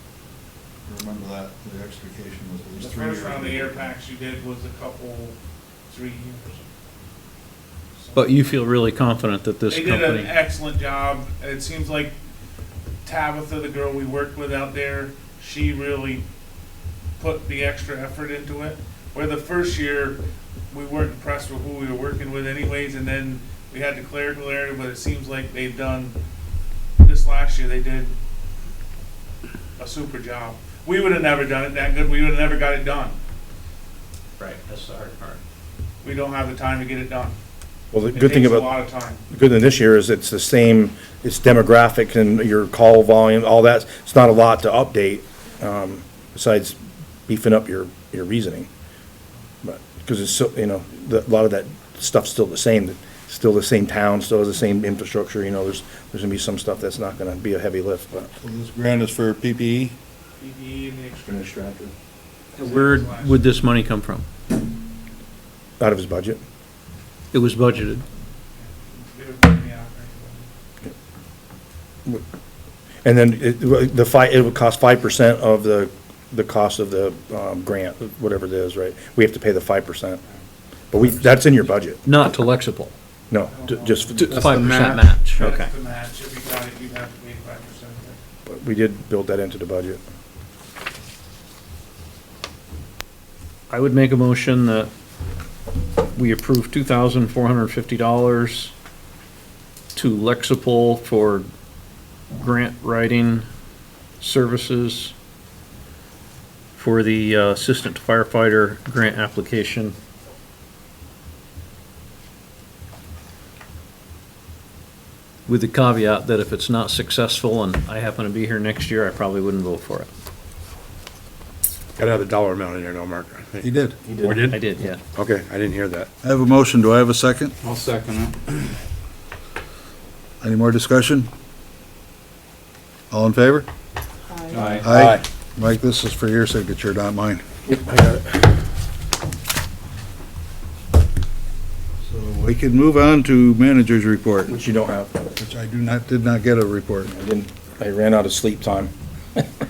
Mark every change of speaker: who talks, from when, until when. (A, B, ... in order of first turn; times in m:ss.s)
0:00.8-0:03.9 A
0:02.8-0:05.4 B
0:05.9-0:06.7 B
0:08.0-0:08.5 B
0:08.1-0:10.3 C
0:09.7-0:12.1 B
0:13.0-0:16.2 B
0:17.2-0:26.2 B
0:27.0-0:28.1 B
0:29.8-0:33.2 B
0:34.4-0:35.4 C
0:36.0-0:37.4 B
0:37.9-0:38.7 D
0:38.1-0:39.2 B
0:39.3-0:46.8 D
0:47.3-0:48.7 D
0:49.6-0:58.3 D
0:58.4-1:00.0 A
1:00.4-1:01.5 B
1:01.2-1:01.9 D
1:02.6-1:04.2 C
1:02.6-1:03.6 B
1:05.8-1:06.4 D
1:07.3-1:08.0 C
1:08.6-1:10.5 B
1:13.0-1:20.2 D
1:20.9-1:22.0 D
1:22.0-1:22.9 C
1:23.3-1:24.5 D
1:23.5-1:24.1 B
1:24.2-1:25.7 C
1:24.3-1:25.1 E
1:25.4-1:28.2 B
1:28.4-1:30.0 D
1:33.7-1:34.9 C
1:36.1-1:38.7 C
1:39.9-1:41.5 C
1:42.3-1:43.5 C
1:44.2-1:45.1 C
1:46.8-1:49.9 C
1:55.4-2:00.1 C
2:02.0-2:03.7 F
2:03.6-2:04.0 A
2:04.2-2:04.6 F
2:04.5-2:05.0 C
2:05.1-2:06.1 F
2:06.2-2:07.6 A
2:07.6-2:08.7 E
2:10.4-2:11.3 A
2:13.1-2:13.7 A
2:14.6-2:15.2 F
2:14.8-2:17.4 A
2:17.6-2:18.5 D
2:22.0-2:24.5 A
2:24.5-2:25.2 D
2:25.4-2:27.1 A
2:27.1-2:29.5 D